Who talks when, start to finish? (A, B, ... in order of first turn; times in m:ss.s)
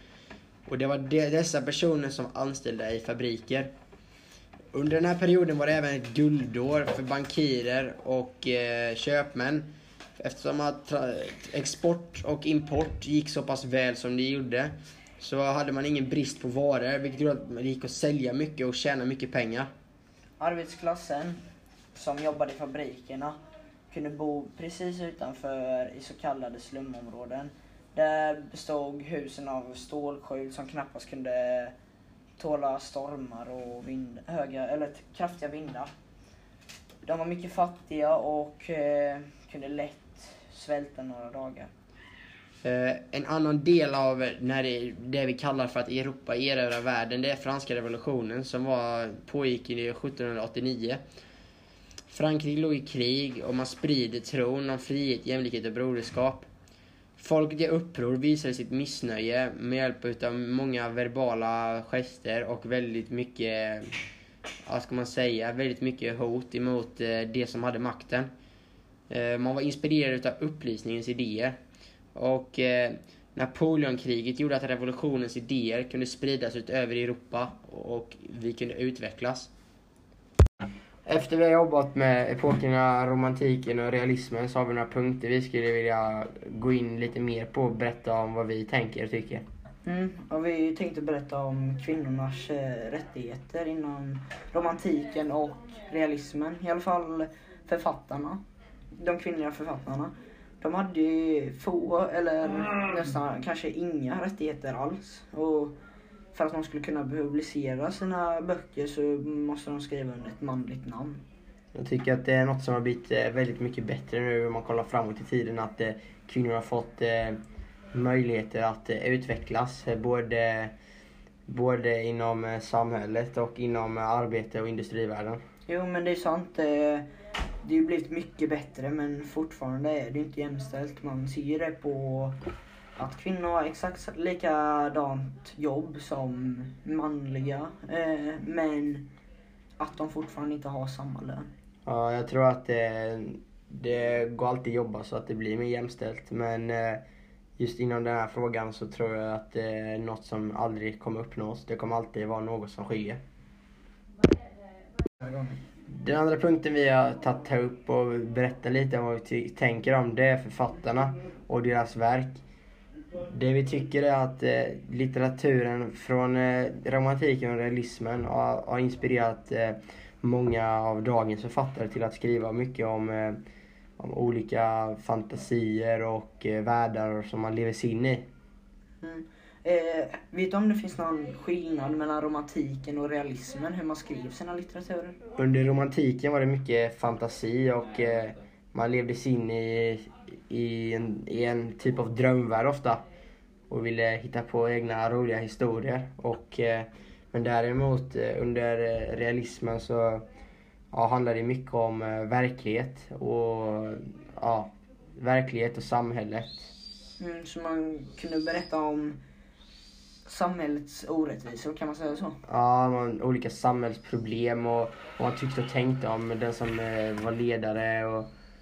0:00.7-0:03.7 A
0:04.7-0:19.7 A
0:20.4-0:21.4 B
0:21.9-0:23.4 B
0:23.9-0:31.7 B
0:32.4-0:35.9 B
0:37.0-0:41.7 B
0:42.6-0:51.0 A
0:52.1-0:56.5 A
0:57.2-1:03.9 A
1:04.7-1:08.3 A
1:09.1-1:11.6 A
1:12.2-1:19.5 A
1:21.0-1:29.4 A
1:29.8-1:38.4 B
1:39.0-1:45.8 B
1:46.3-1:51.2 B
1:51.7-1:57.4 A
1:57.9-2:00.7 A
2:01.5-2:05.4 A
2:05.7-2:07.1 B
2:07.6-2:12.4 B
2:13.0-2:19.1 B
2:19.8-2:21.5 B
2:21.9-2:27.0 A
2:27.6-2:33.2 A
2:35.2-2:35.6 B
2:35.8-2:42.4 A
2:43.2-2:53.4 A
2:54.0-2:58.3 A
2:59.0-3:05.2 B
3:05.4-3:13.0 A
3:13.7-3:20.2 A
3:20.9-3:26.7 A
3:27.2-3:29.2 B
3:30.3-3:32.4 B
3:32.5-3:38.3 A